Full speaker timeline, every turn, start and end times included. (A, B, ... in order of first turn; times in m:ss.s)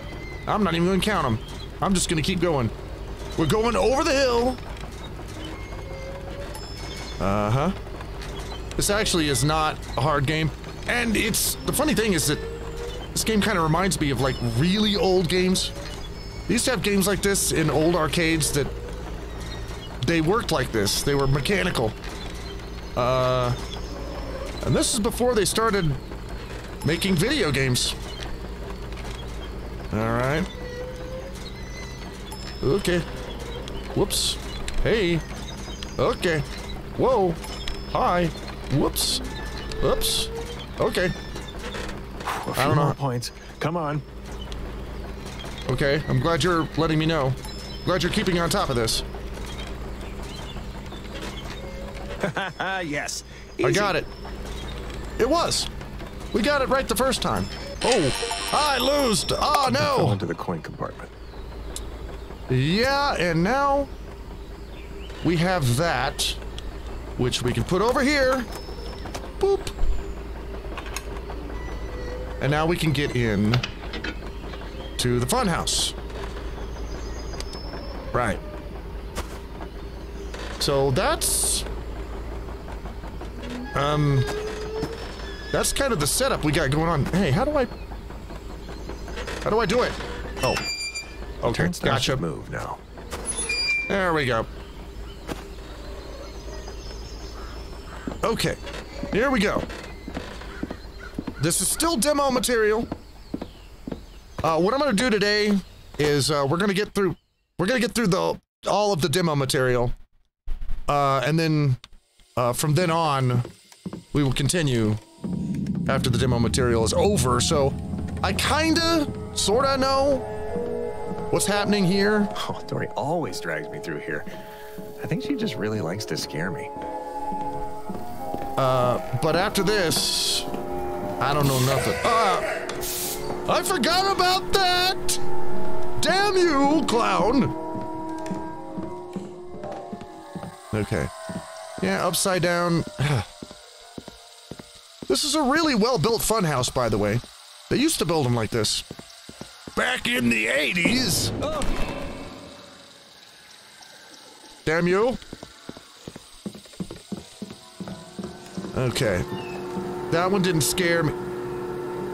0:00.5-0:02.7 A
0:03.4-0:04.6 A
0:07.2-0:07.7 A
0:08.8-0:12.4 A
0:13.1-0:15.7 A
0:16.5-0:18.7 A
0:20.0-0:21.9 A
0:23.0-0:23.6 A
0:24.6-0:26.0 A
0:26.8-0:28.0 A
0:29.9-0:30.5 A
0:32.6-0:33.0 A
0:33.9-0:35.2 A
0:36.0-0:39.2 A
0:39.8-0:41.1 A
0:42.2-0:44.0 B
0:42.6-0:43.0 A
0:45.7-0:49.0 A
0:52.2-0:54.0 B
0:53.6-0:54.1 A
0:55.2-0:55.7 A
0:56.3-1:00.2 A
0:59.6-1:01.1 B
1:02.5-1:03.9 A
1:05.2-1:06.4 A
1:07.2-1:08.5 A
1:09.4-1:09.7 A
1:12.4-1:13.6 A
1:15.0-1:15.9 A
1:18.1-1:18.4 A
1:20.6-1:21.6 A
1:23.7-1:24.3 A
1:25.5-1:27.7 A
1:29.4-1:30.6 A
1:31.4-1:32.8 B
1:31.4-1:32.2 A
1:33.9-1:34.5 A
1:38.2-1:38.6 A
1:39.1-1:39.7 A
1:41.4-1:42.9 A
1:44.4-1:49.9 A
1:50.9-1:51.8 A
1:52.4-1:53.5 A
1:54.1-1:55.0 A
1:55.9-2:00.2 A
2:01.3-2:02.3 A
2:02.3-2:06.7 B
2:08.6-2:10.5 A
2:11.2-2:12.4 A
2:13.4-2:15.2 A
2:16.0-2:17.6 A
2:20.7-2:21.1 A
2:21.8-2:23.3 A
2:25.1-2:28.8 A
2:29.8-2:31.4 A
2:31.4-2:31.7 B
2:34.6-2:35.2 A
2:38.7-2:39.2 A
2:40.1-2:41.1 A